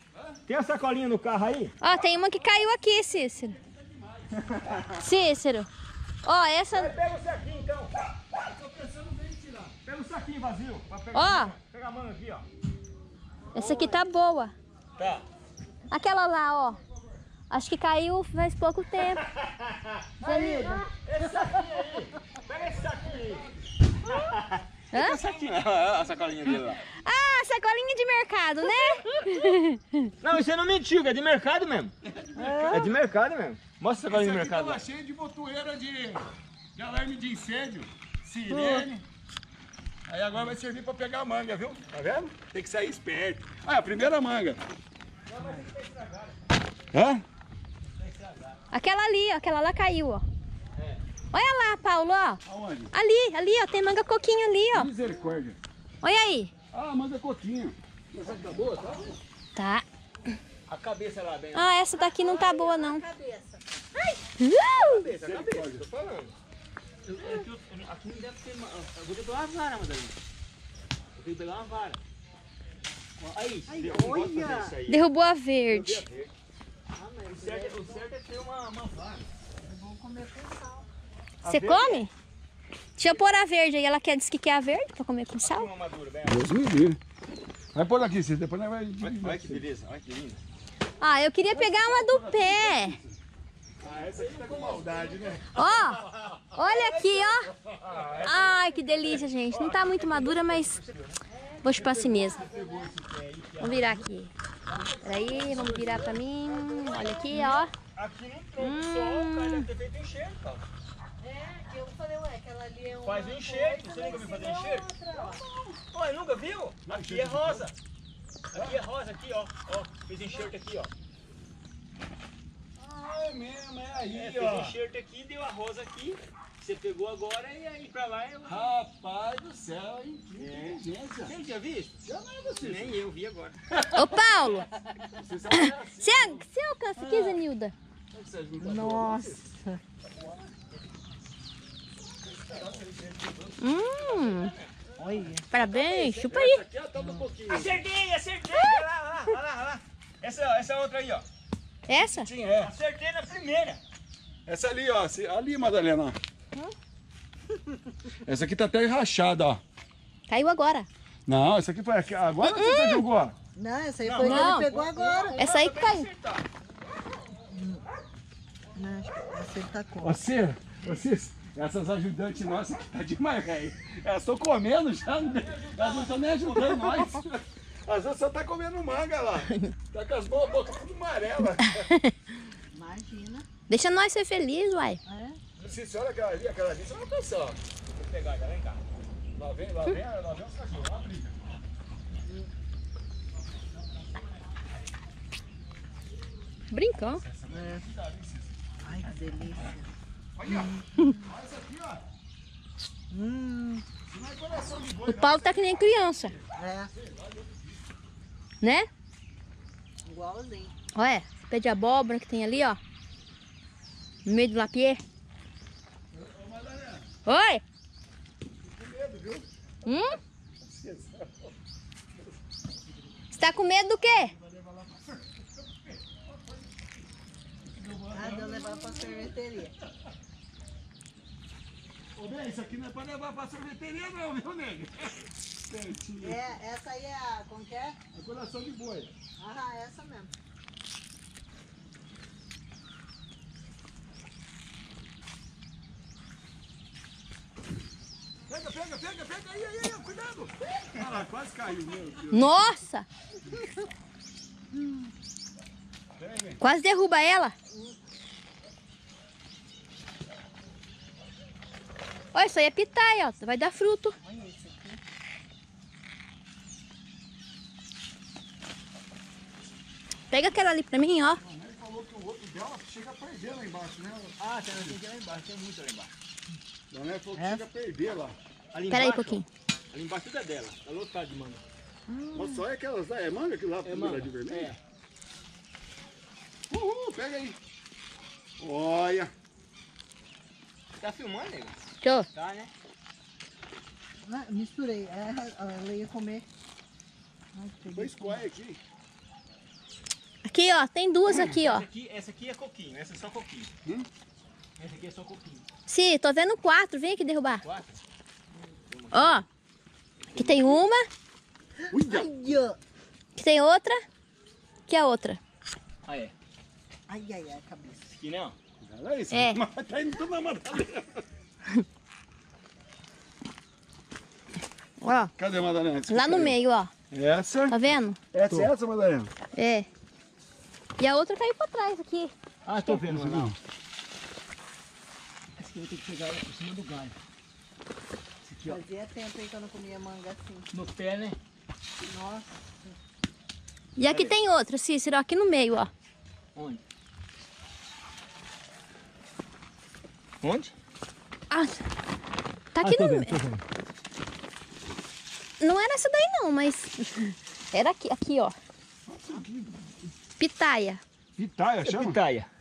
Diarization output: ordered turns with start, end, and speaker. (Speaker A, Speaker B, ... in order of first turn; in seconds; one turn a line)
Speaker A: 0.5-1.7
Speaker B: 1.8-3.6
Speaker B: 5.0-5.7
Speaker B: 6.2-6.9
Speaker A: 6.7-7.9
Speaker A: 8.6-8.8
Speaker C: 9.2-9.5
Speaker A: 9.7-12.4
Speaker B: 11.1-11.6
Speaker D: 13.5-14.0
Speaker B: 13.6-14.6
Speaker A: 15.0-15.2
Speaker B: 15.9-16.8
Speaker B: 17.5-19.2
Speaker A: 19.0-23.5
Speaker D: 20.2-20.8
Speaker B: 20.4-20.8
Speaker A: 24.1-26.8
Speaker B: 24.9-25.2
Speaker C: 24.9-26.0
Speaker B: 26.9-30.1
Speaker A: 30.2-31.9
Speaker C: 32.1-32.9
Speaker D: 32.4-32.9
Speaker A: 32.7-34.8
Speaker C: 34.0-39.0
Speaker C: 40.1-44.6
Speaker A: 45.3-46.3
Speaker C: 46.9-47.2
Speaker A: 48.1-48.4
Speaker B: 48.7-50.2
Speaker B: 51.3-54.9
Speaker C: 52.5-52.9
Speaker C: 54.7-55.6
Speaker B: 56.0-56.5
Speaker C: 56.7-59.2
Speaker A: 58.5-58.8
Speaker B: 59.6-59.9
Speaker A: 60.7-61.7
Speaker B: 61.5-63.1
Speaker D: 61.9-63.6
Speaker B: 64.4-65.0
Speaker A: 64.7-66.3
Speaker C: 65.1-65.9
Speaker A: 67.1-70.2
Speaker A: 71.2-72.0
Speaker A: 73.3-75.1
Speaker D: 73.7-74.8
Speaker B: 74.9-76.0
Speaker A: 75.7-76.3
Speaker D: 77.0-78.0
Speaker A: 77.3-79.3
Speaker D: 79.6-80.9
Speaker B: 81.4-82.1
Speaker C: 81.5-81.8
Speaker B: 83.0-85.7
Speaker A: 85.4-86.5
Speaker C: 86.3-87.0
Speaker C: 87.7-89.7
Speaker A: 89.0-90.4
Speaker B: 91.0-93.0
Speaker C: 91.5-93.2
Speaker C: 93.8-95.5
Speaker A: 94.1-95.1
Speaker B: 95.5-96.0
Speaker A: 95.7-97.2
Speaker B: 96.5-97.5
Speaker C: 97.9-98.3
Speaker B: 98.2-100.8
Speaker A: 99.8-101.2
Speaker B: 101.6-102.5
Speaker C: 101.8-102.6
Speaker A: 102.4-104.1
Speaker D: 102.5-102.9
Speaker B: 103.6-104.3
Speaker A: 104.7-105.3
Speaker B: 105.0-107.7
Speaker A: 107.3-110.7
Speaker B: 108.6-109.7
Speaker D: 111.2-115.4
Speaker A: 113.0-117.7
Speaker C: 116.9-117.7
Speaker A: 118.5-120.9
Speaker C: 122.8-124.8
Speaker A: 124.1-128.6
Speaker C: 128.4-131.3
Speaker A: 130.4-132.0
Speaker C: 132.0-133.0
Speaker A: 132.6-133.6
Speaker C: 133.8-134.2
Speaker B: 133.9-134.7
Speaker C: 135.2-136.5
Speaker B: 135.5-137.7
Speaker C: 137.0-137.4
Speaker C: 138.1-139.4
Speaker D: 138.6-139.8
Speaker C: 142.5-143.4
Speaker B: 143.6-144.5
Speaker A: 144.1-144.7
Speaker D: 145.0-145.5
Speaker B: 145.5-146.6
Speaker A: 145.6-146.3
Speaker C: 146.2-147.8
Speaker D: 147.0-147.2
Speaker A: 147.5-151.2
Speaker B: 151.9-152.3
Speaker C: 151.9-152.7
Speaker A: 152.6-153.8
Speaker C: 154.5-156.2
Speaker C: 158.2-159.6
Speaker B: 160.3-160.9
Speaker C: 161.3-163.3
Speaker B: 162.4-163.1
Speaker D: 163.6-165.4
Speaker A: 164.1-166.4
Speaker B: 164.2-164.7
Speaker B: 165.3-166.1
Speaker D: 167.5-167.8
Speaker D: 168.8-170.2
Speaker C: 170.0-181.9
Speaker A: 175.5-176.8
Speaker D: 182.7-183.5
Speaker B: 183.7-185.0
Speaker D: 185.1-185.4
Speaker C: 185.6-187.6
Speaker A: 188.1-188.8
Speaker C: 189.3-191.4
Speaker B: 196.7-197.2
Speaker C: 197.2-198.5
Speaker D: 197.5-197.9
Speaker D: 198.8-199.9
Speaker C: 200.4-202.0
Speaker D: 200.5-201.0
Speaker D: 203.1-203.8
Speaker C: 204.1-205.7
Speaker B: 205.1-206.3
Speaker D: 206.5-206.9
Speaker C: 206.9-207.8
Speaker B: 208.6-208.9
Speaker D: 210.1-210.7
Speaker B: 210.9-212.8
Speaker B: 214.2-215.0
Speaker C: 216.1-217.1
Speaker B: 217.3-217.6
Speaker C: 218.7-219.5
Speaker B: 219.8-220.2
Speaker C: 220.6-221.5
Speaker B: 223.3-224.3
Speaker C: 224.3-226.7
Speaker C: 227.8-229.3
Speaker D: 228.1-229.7
Speaker C: 232.2-236.4
Speaker D: 236.2-238.0
Speaker C: 238.1-239.1
Speaker D: 239.4-240.3
Speaker C: 248.5-252.7
Speaker B: 252.3-253.1
Speaker D: 254.7-255.1
Speaker C: 256.2-256.6
Speaker B: 256.6-257.5
Speaker B: 262.3-264.2
Speaker D: 264.2-265.0
Speaker B: 270.3-271.4
Speaker C: 271.4-275.0
Speaker A: 274.4-276.1
Speaker C: 276.9-278.4
Speaker D: 277.4-277.6
Speaker A: 278.7-281.6
Speaker B: 278.9-279.5
Speaker D: 282.1-282.6
Speaker C: 282.3-284.8
Speaker A: 283.8-284.8
Speaker C: 286.7-287.6
Speaker C: 288.6-289.3
Speaker A: 291.0-291.7
Speaker B: 292.0-292.3
Speaker A: 292.3-292.7
Speaker D: 294.2-296.5
Speaker D: 297.5-298.4
Speaker C: 297.9-298.8
Speaker B: 300.4-301.9
Speaker A: 301.6-303.7
Speaker A: 304.8-305.6
Speaker B: 305.9-307.6
Speaker A: 308.9-309.4
Speaker B: 309.1-309.4
Speaker C: 310.4-310.8
Speaker B: 310.4-311.1
Speaker D: 311.9-312.8
Speaker C: 311.9-312.3
Speaker B: 313.4-314.0
Speaker B: 314.9-315.4
Speaker A: 316.1-316.3
Speaker D: 317.1-318.1
Speaker A: 318.2-318.6
Speaker C: 318.8-321.2
Speaker B: 319.3-319.6
Speaker B: 325.0-325.3
Speaker C: 325.4-326.6
Speaker B: 326.1-326.9
Speaker C: 327.1-327.8
Speaker B: 327.7-328.2
Speaker C: 328.3-329.3
Speaker B: 329.5-329.9
Speaker B: 331.0-332.3
Speaker A: 332.7-333.6
Speaker C: 333.0-333.6
Speaker A: 335.6-337.1
Speaker A: 338.5-338.8
Speaker D: 338.7-340.7
Speaker A: 340.7-341.4
Speaker D: 342.0-342.5
Speaker B: 344.0-345.9
Speaker A: 344.1-344.3
Speaker A: 350.4-350.7
Speaker B: 351.5-351.8
Speaker B: 352.7-353.4
Speaker A: 352.8-353.6
Speaker B: 355.6-358.6
Speaker C: 359.1-359.9
Speaker B: 360.4-361.0
Speaker C: 361.4-362.2
Speaker A: 361.8-362.5